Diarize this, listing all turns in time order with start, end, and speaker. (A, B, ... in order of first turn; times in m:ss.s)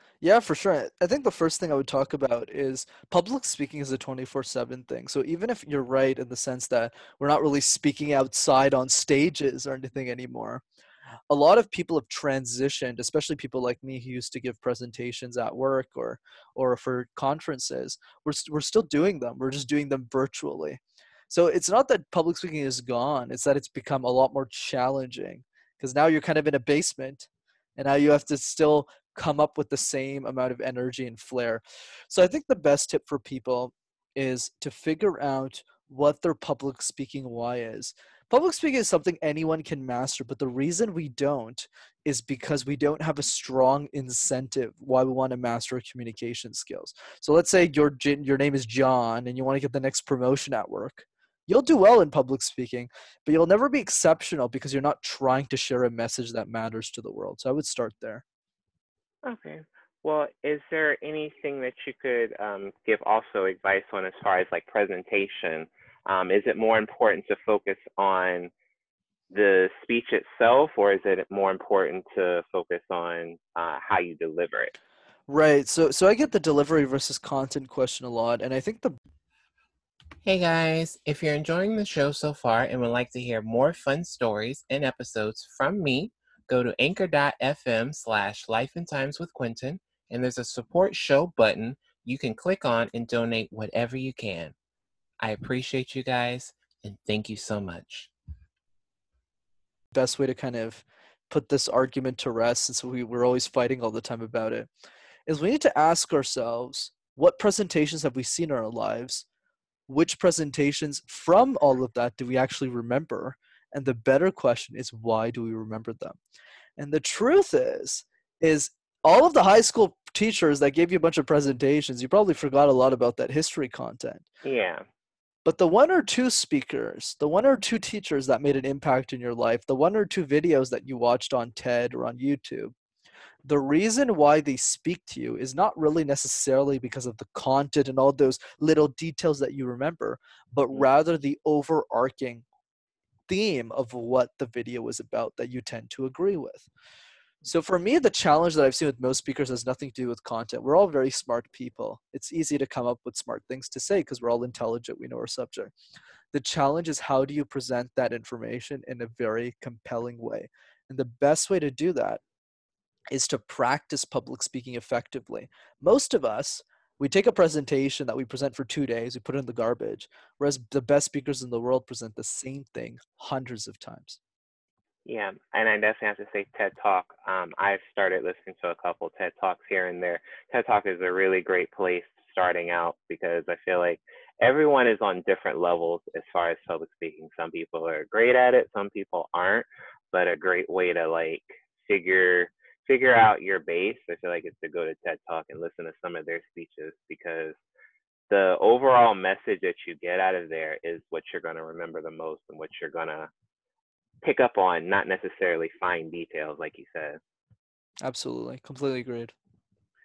0:00.2-0:10.6 A
0:11.3-0:58.2 A
0:59.2-1:08.5 B
1:09.3-1:14.7 B
1:15.3-1:19.0 A
1:20.2-1:34.6 C
1:35.2-1:38.1 C
1:39.9-1:44.7 A
1:45.3-1:49.2 A
1:49.9-1:56.2 A
1:56.8-2:04.2 A
2:04.4-2:04.8 B
2:05.4-2:12.7 A
2:13.4-2:22.4 A
2:23.3-2:26.7 A
2:27.4-2:35.7 A
2:36.3-2:42.2 A
2:43.1-2:54.2 A
2:55.0-3:17.6 B
3:18.3-3:23.3 B
3:24.2-3:27.2 B
3:28.0-3:29.3 A